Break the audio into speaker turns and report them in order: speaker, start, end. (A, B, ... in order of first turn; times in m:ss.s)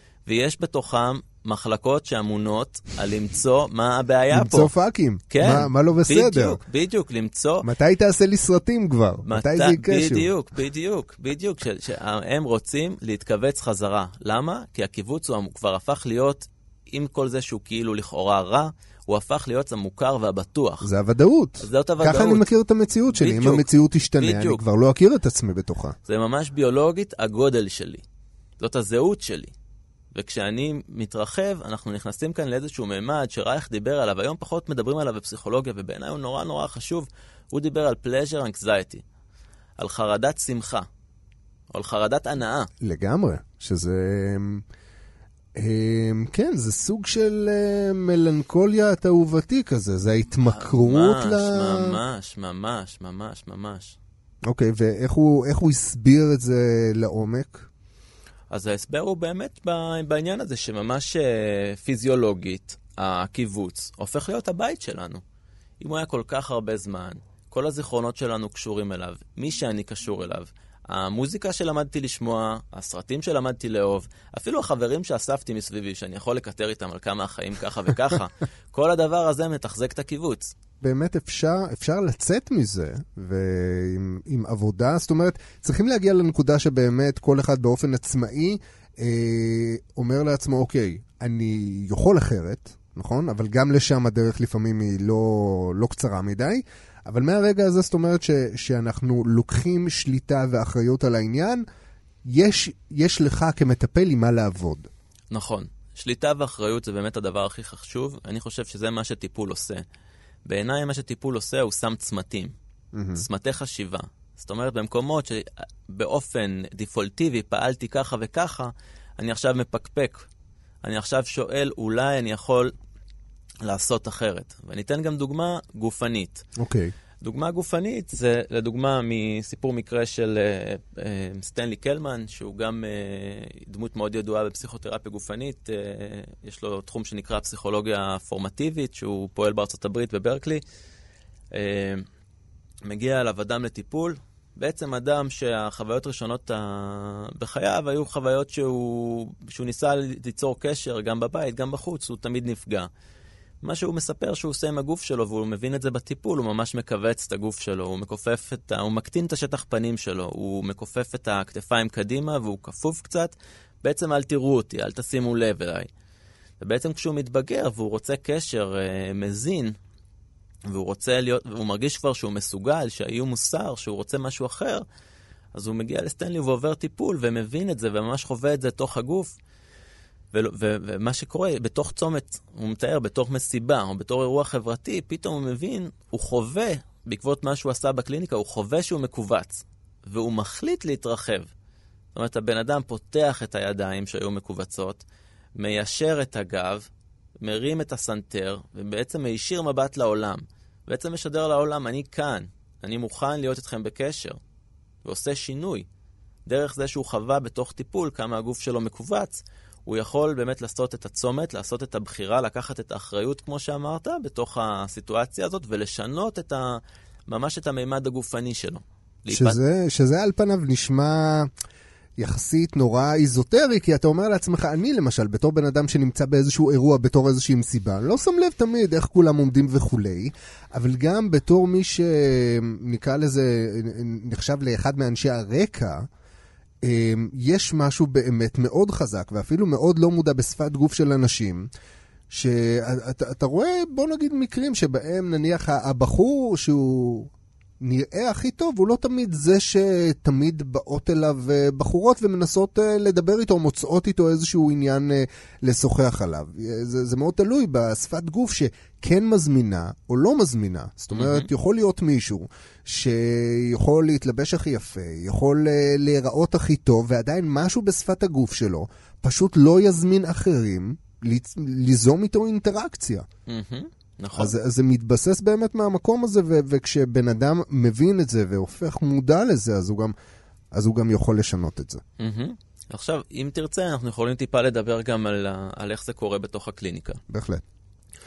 0:00.3-0:04.7 A
0:04.3-0:06.6 B
0:05.3-0:07.7 A
0:07.6-0:10.3 B
0:09.3-0:20.9 A
0:20.8-0:26.0 B
0:21.6-0:22.5 A
0:23.1-0:24.6 A
0:26.1-0:28.0 A
0:28.6-0:29.5 A
0:30.1-0:39.0 A
0:39.8-0:40.9 A
0:41.7-0:42.7 A
0:42.8-0:44.6 B
0:45.6-0:52.0 B
0:50.5-0:54.0 A
0:54.5-0:57.7 B
0:58.5-1:05.2 A
1:05.8-1:20.6 A
1:20.8-1:41.6 B
1:42.3-1:44.9 B
1:45.3-1:49.8 A
1:50.5-1:52.5 A
1:52.9-1:53.2 B
1:53.2-2:00.3 A
2:00.8-2:02.7 A
2:03.6-2:06.4 A
2:06.6-2:06.9 B
2:07.2-2:20.6 A
2:21.5-2:22.1 A
2:22.8-2:32.9 A
2:33.6-2:45.9 A
2:46.6-2:49.8 A
2:50.7-2:54.8 A
2:55.6-2:59.4 A
3:00.3-3:11.5 A
3:12.1-3:15.0 A
3:15.6-3:16.9 A
3:17.4-3:24.4 A
3:25.0-3:25.9 A
3:26.5-3:39.6 A
3:39.3-3:41.5 B
3:42.2-3:56.1 B
3:56.8-4:01.7 B
4:02.3-4:33.3 B
4:21.2-4:21.5 A
4:33.5-4:34.5 A
4:34.4-4:40.2 B
4:40.7-4:42.0 B
4:42.2-4:47.2 A
4:47.3-4:47.6 B